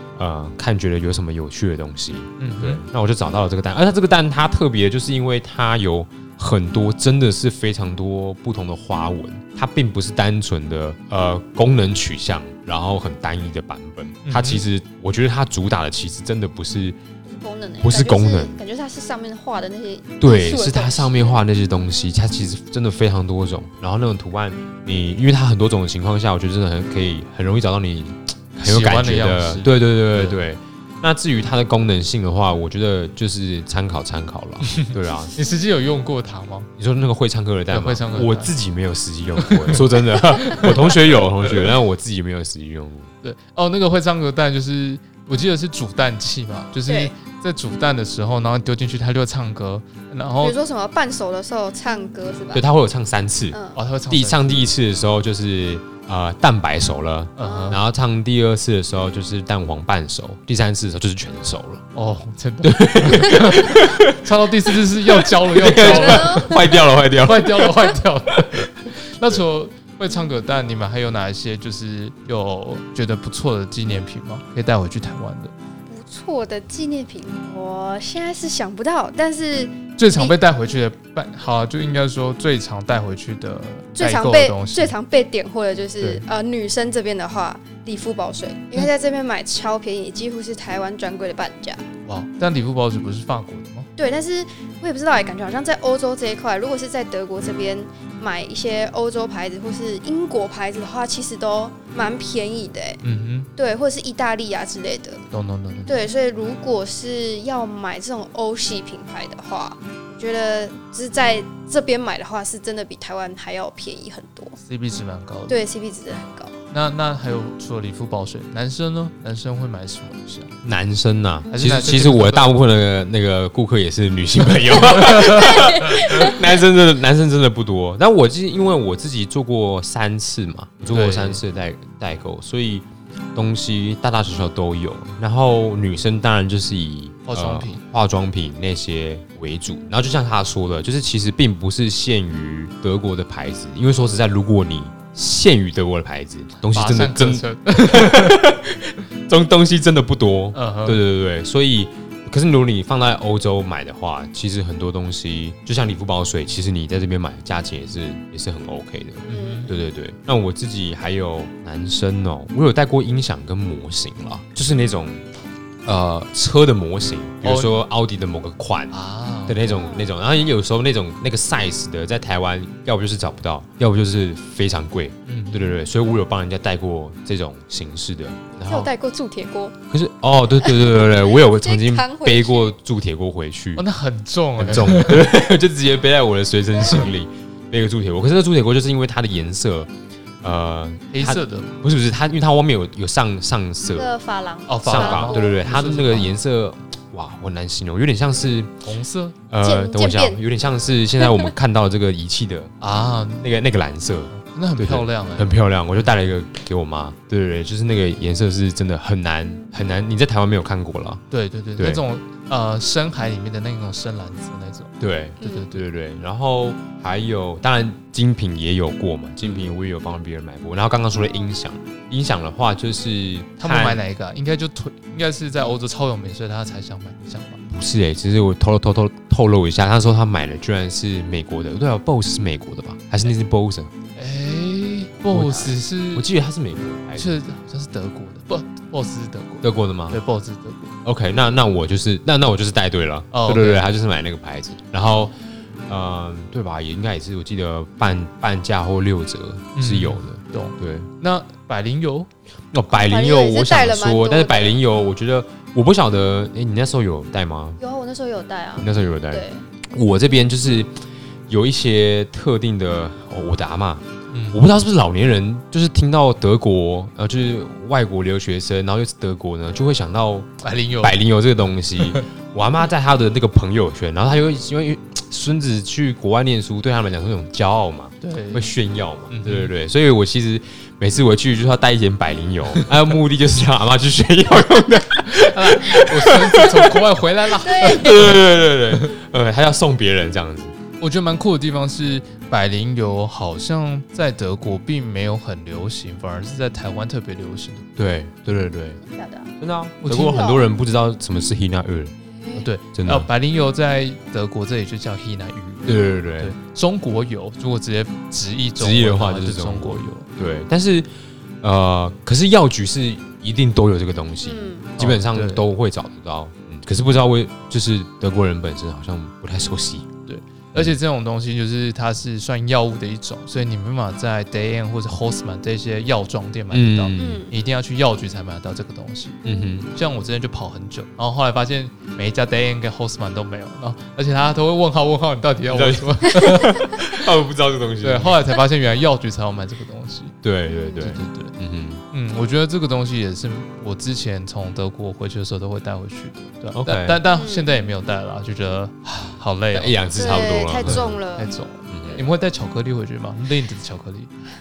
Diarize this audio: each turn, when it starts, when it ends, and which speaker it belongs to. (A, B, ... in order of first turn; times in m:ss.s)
0:00.2-0:17.0 A
0:02.4-0:02.8 B
0:14.2-0:14.6 B
0:17.2-0:21.4 C
0:17.8-0:18.6 A
0:20.2-0:35.4 A
0:28.6-0:30.4 B
0:34.7-0:36.7 B
0:36.8-0:43.1 A
0:37.7-0:38.5 B
0:39.4-0:41.7 B
0:43.2-0:50.6 B
0:46.8-0:47.1 C
0:50.4-0:52.6 C
0:52.5-0:53.6 A
0:53.5-0:53.8 C
0:53.7-0:54.7 B
0:54.1-1:01.8 A
0:57.4-0:57.8 B
0:57.4-0:57.8 C
1:01.9-1:15.5 B
1:02.6-1:04.2 A
1:05.1-1:08.4 A
1:05.8-1:07.0 C
1:15.9-1:20.3 C
1:20.0-1:24.9 B
1:23.9-1:31.9 C
1:32.0-1:33.9 B
1:34.0-1:43.0 C
1:43.0-1:43.5 B
1:43.6-1:45.2 C
1:45.3-1:46.0 B
1:45.8-1:54.6 C
1:54.6-1:55.6 B
1:55.5-1:56.5 C
1:56.7-2:00.5 B
2:00.6-2:45.2 A
2:01.5-2:02.6 B
2:05.0-2:05.4 B
2:05.3-2:06.5 C
2:10.9-2:11.4 B
2:17.2-2:17.8 B
2:26.7-2:28.4 B
2:30.5-2:31.0 B
2:39.2-2:39.7 B
2:39.3-2:39.7 C
2:45.8-2:49.0 A
2:47.4-2:47.8 B
2:48.9-2:49.6 B
2:49.5-2:58.9 A
2:49.7-2:50.1 C
2:55.2-2:55.8 B
2:58.6-2:59.8 C
2:59.9-3:03.8 A
3:00.6-3:02.8 C
3:03.8-3:05.3 B
3:04.6-3:09.9 A
3:10.4-3:14.1 A
3:11.1-3:11.7 B
3:13.9-3:15.6 C
3:14.7-3:16.4 B
3:14.8-3:18.7 A
3:18.8-3:19.4 B
3:19.5-3:22.7 A
3:19.6-3:20.4 C
3:21.2-3:21.5 C
3:22.8-3:23.6 B
3:23.4-3:31.2 A
3:24.3-3:26.1 B
3:31.3-3:35.8 B
3:31.8-3:32.0 A
3:35.0-3:44.0 A
3:39.4-3:39.7 B
3:43.6-3:47.6 B
3:47.7-3:53.9 A
3:54.2-3:56.3 B
3:55.3-3:57.4 A
3:57.1-4:01.0 B
3:59.6-4:00.2 A
4:01.0-4:05.3 A
4:03.3-4:03.9 B
4:05.9-4:11.1 A
4:09.7-4:12.3 B
4:12.7-4:17.8 A
4:12.9-4:14.8 C
4:17.8-4:19.6 C
4:18.8-4:21.0 A
4:21.5-4:47.1 A
4:24.3-4:24.6 B
4:30.6-4:31.2 B
4:38.2-4:38.7 B
4:39.3-4:39.7 B
4:42.7-4:43.0 B
4:45.2-4:48.4 B
4:47.6-4:48.2 C
4:47.7-4:50.7 A
4:51.0-4:57.9 B
4:58.0-4:59.0 A
4:59.0-4:59.5 C
4:59.6-5:02.1 A
5:00.0-5:00.4 B
5:00.1-5:00.7 C
5:02.2-5:02.7 C
5:02.5-5:10.3 B
5:02.9-5:03.3 A
5:05.9-5:06.5 A
5:08.8-5:11.1 A
5:11.6-5:20.1 A
5:14.4-5:14.9 C
5:15.0-5:15.7 B
5:20.2-5:29.4 B
5:26.7-5:27.4 A
5:27.2-5:27.6 C
5:29.4-5:29.9 A
5:29.9-5:37.2 B
5:35.7-5:38.4 A
5:38.0-5:40.4 B
5:40.4-5:42.0 A
5:40.7-5:41.1 C
5:41.0-5:41.5 B
5:42.1-5:50.0 B
5:46.7-5:47.2 A
5:47.3-5:47.7 C
5:49.7-5:51.2 A
5:50.1-5:51.5 C
5:50.8-5:54.3 B
5:51.9-5:52.2 A